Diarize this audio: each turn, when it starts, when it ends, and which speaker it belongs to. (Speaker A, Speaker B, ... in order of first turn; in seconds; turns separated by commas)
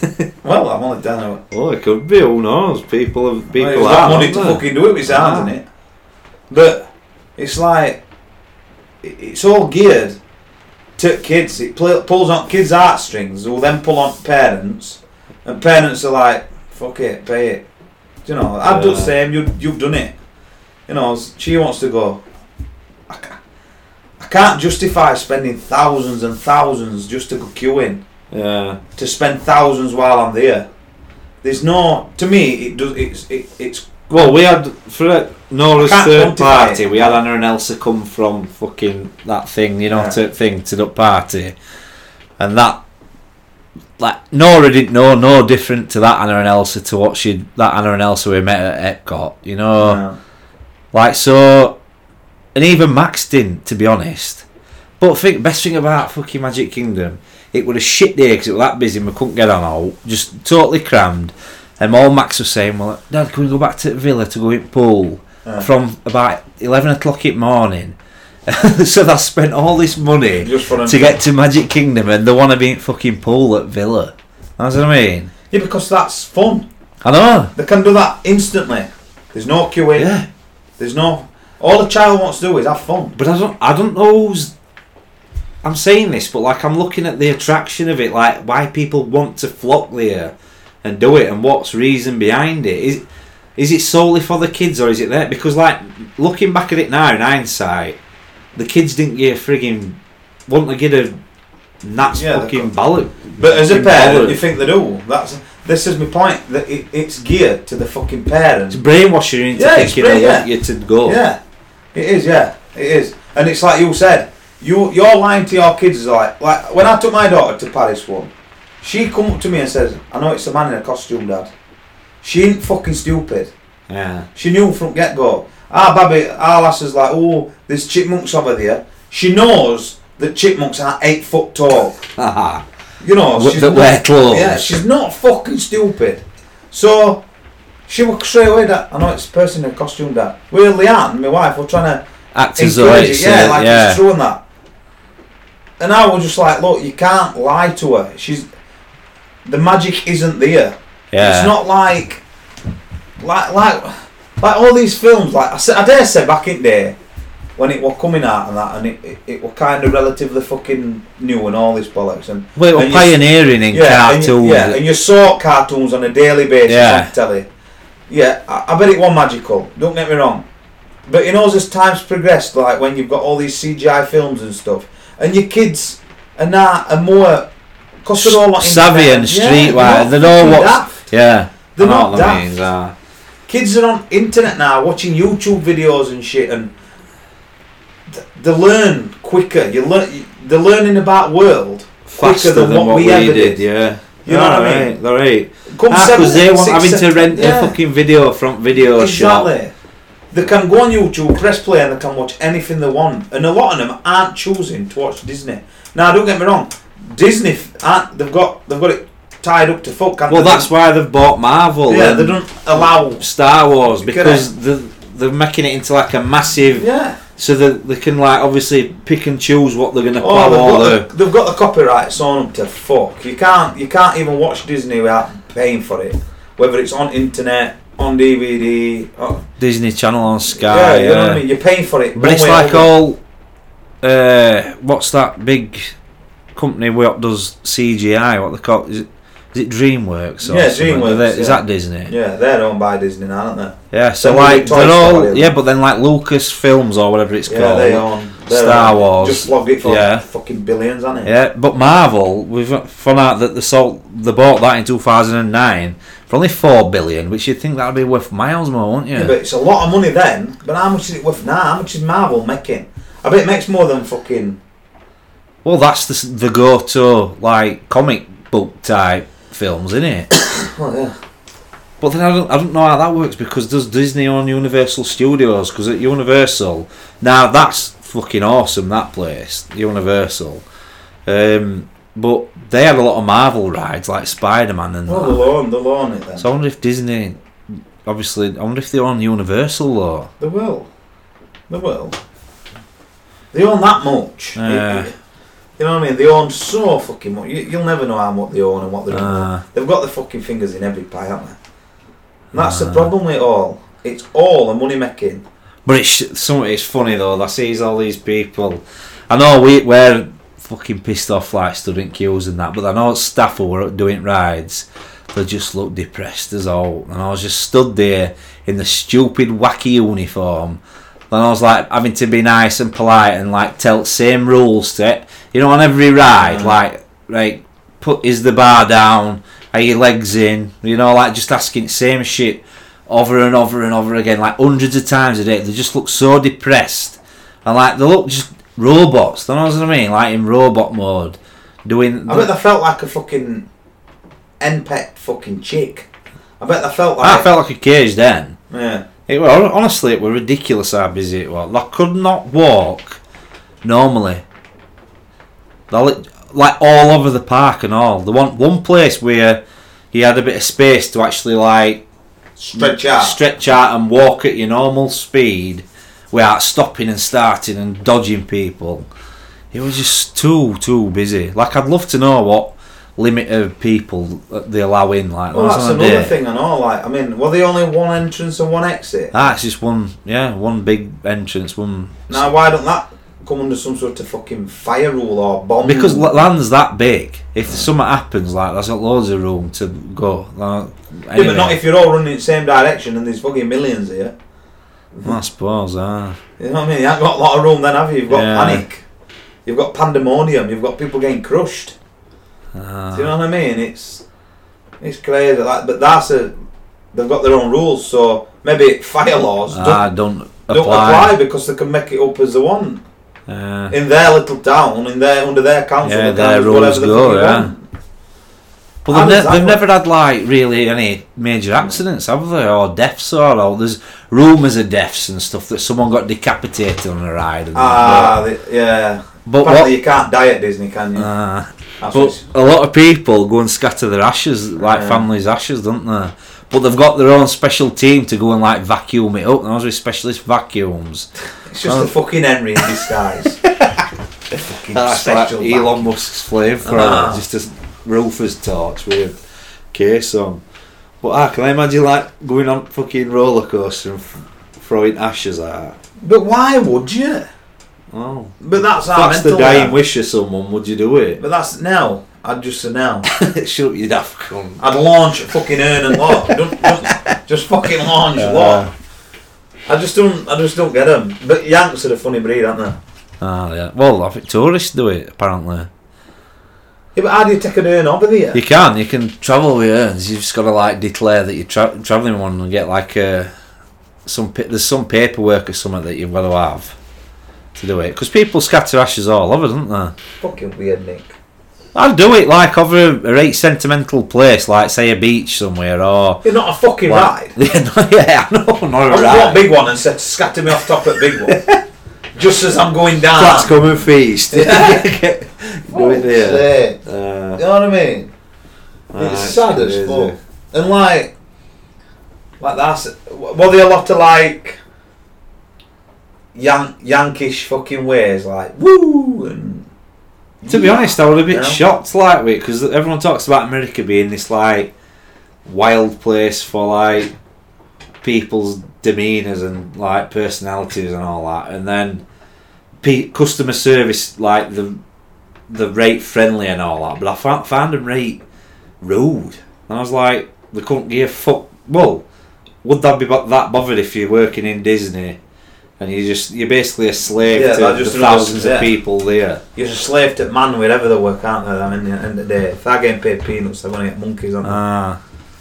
Speaker A: 0.4-1.4, Speaker B: 1.5-5.5, Speaker A: 3.5-5.7, Speaker A: 6.5-6.8, Speaker A: 7.4-8.0, Speaker A: 9.0-10.2, Speaker A: 11.0-17.6, Speaker A: 18.2-20.1, Speaker B: 18.6-19.1, Speaker A: 20.9-22.2, Speaker A: 23.1-23.4, Speaker A: 24.2-28.0, Speaker B: 28.3-28.8, Speaker A: 29.0-30.7, Speaker A: 31.4-33.9, Speaker B: 34.1-41.6, Speaker A: 35.8-37.2, Speaker A: 39.9-40.2, Speaker B: 42.4-42.8, Speaker B: 44.0-50.0, Speaker A: 49.8-50.2, Speaker B: 50.9-51.8, Speaker B: 52.5-54.5, Speaker B: 55.0-75.3, Speaker A: 70.4-71.2, Speaker A: 75.5-76.7, Speaker B: 77.0-77.5, Speaker A: 77.6-80.1, Speaker B: 80.0-80.3, Speaker A: 80.8-83.2, Speaker B: 83.2-84.5, Speaker B: 85.6-93.0, Speaker B: 93.6-98.0, Speaker B: 98.6-101.2, Speaker B: 101.8-104.4, Speaker A: 102.1-102.7, Speaker A: 103.4-108.8, Speaker B: 108.7-111.2, Speaker A: 109.5-110.5, Speaker A: 111.0-111.4, Speaker A: 111.9-121.5, Speaker A: 122.2-123.5, Speaker B: 123.9-124.3, Speaker A: 124.3-132.0, Speaker B: 132.2-132.6, Speaker A: 133.0-137.2, Speaker B: 133.3-134.8, Speaker A: 137.9-142.1, Speaker B: 142.3-144.0, Speaker A: 142.6-144.4, Speaker A: 145.8-148.5, Speaker A: 149.4-152.2, Speaker B: 151.1-151.6, Speaker A: 153.2-157.0, Speaker A: 157.6-163.2, Speaker B: 162.6-164.8, Speaker A: 163.7-167.5, Speaker B: 166.7-167.1, Speaker A: 168.1-170.4, Speaker A: 171.1-177.5, Speaker A: 178.0-181.1, Speaker B: 178.2-182.9, Speaker A: 181.8-182.5, Speaker A: 183.5-186.7, Speaker A: 188.1-193.6, Speaker B: 192.1-199.5, Speaker A: 194.2-194.9, Speaker A: 195.7-197.8, Speaker A: 198.8-199.7, Speaker A: 200.3-210.7, Speaker B: 210.3-221.1, Speaker A: 211.9-213.2, Speaker A: 214.0-214.5, Speaker A: 216.8-217.2, Speaker A: 220.2-229.4, Speaker B: 229.6-231.4, Speaker A: 230.5-232.9, Speaker B: 232.2-233.2, Speaker B: 234.0-235.9, Speaker B: 236.6-242.1, Speaker A: 240.4-245.6, Speaker B: 243.9-250.2, Speaker A: 247.5-251.3, Speaker B: 251.2-259.4, Speaker A: 259.1-264.6, Speaker B: 265.6-270.3, Speaker A: 270.5-271.1, Speaker B: 272.0-280.6, Speaker B: 281.3-285.4, Speaker A: 285.1-286.5, Speaker B: 286.4-290.3, Speaker A: 290.4-290.9, Speaker A: 291.7-292.2, Speaker A: 293.5-295.1, Speaker B: 294.6-295.1, Speaker A: 295.8-301.6, Speaker B: 299.1-299.6, Speaker B: 302.5-303.1, Speaker A: 302.5-305.4, Speaker B: 305.9-320.8, Speaker B: 321.3-342.5, Speaker A: 326.3-326.8, Speaker A: 342.3-343.7, Speaker A: 344.6-346.1, Speaker A: 346.6-347.5, Speaker B: 347.2-348.6, Speaker A: 348.7-349.1, Speaker B: 349.3-353.2, Speaker B: 353.8-354.4, Speaker B: 355.9-362.1, Speaker A: 362.6-363.4, Speaker B: 362.7-369.1, Speaker B: 369.7-376.4, Speaker A: 375.5-379.4, Speaker B: 379.3-382.5, Speaker A: 382.3-386.5, Speaker B: 385.8-391.8, Speaker A: 391.4-394.4, Speaker B: 395.2-396.4, Speaker A: 396.6-399.0, Speaker B: 398.3-398.8, Speaker A: 399.6-402.0, Speaker B: 402.8-403.3, Speaker A: 403.1-404.2, Speaker A: 405.0-406.5, Speaker A: 407.1-410.1, Speaker B: 409.7-411.4, Speaker A: 410.7-413.0, Speaker B: 413.5-414.0, Speaker A: 413.9-417.8, Speaker B: 416.0-417.7, Speaker B: 419.1-428.4, Speaker A: 419.1-419.8, Speaker A: 427.7-431.3, Speaker B: 429.5-429.9, Speaker B: 431.2-441.3, Speaker A: 432.0-432.4, Speaker A: 434.8-435.3, Speaker A: 441.7-443.6, Speaker B: 441.8-442.1, Speaker B: 443.6-443.9, Speaker A: 444.6-446.1, Speaker B: 444.9-449.4, Speaker A: 446.8-447.4, Speaker B: 449.9-450.6, Speaker B: 451.2-456.0, Speaker A: 456.2-457.5, Speaker B: 458.1-461.4, Speaker A: 458.6-460.0, Speaker A: 461.4-463.3, Speaker B: 463.3-464.9, Speaker A: 464.8-468.9, Speaker B: 466.1-467.4, Speaker B: 467.9-468.9, Speaker A: 469.9-473.0, Speaker B: 473.4-475.9, Speaker A: 477.1-478.6, Speaker B: 478.5-483.5, Speaker B: 484.3-487.0, Speaker B: 487.8-490.1, Speaker A: 490.4-491.4, Speaker B: 491.9-496.4, Speaker A: 496.4-497.6, Speaker B: 497.1-499.7, Speaker A: 499.1-501.6, Speaker B: 501.2-501.8, Speaker A: 502.4-503.8, Speaker B: 503.3-507.6, Speaker A: 504.5-505.1, Speaker A: 505.9-507.0, Speaker A: 507.6-508.3, Speaker B: 509.1-510.4, Speaker A: 509.2-511.3, Speaker A: 512.6-514.8, Speaker A: 516.5-519.9, Speaker A: 520.6-521.8, Speaker B: 520.7-524.9, Speaker B: 525.6-527.3, Speaker B: 528.2-532.2, Speaker B: 533.0-535.0, Speaker B: 535.7-538.4, Speaker B: 539.0-542.2, Speaker B: 542.8-545.4, Speaker B: 546.0-549.6, Speaker A: 547.5-549.0, Speaker A: 549.8-554.8, Speaker B: 554.6-555.2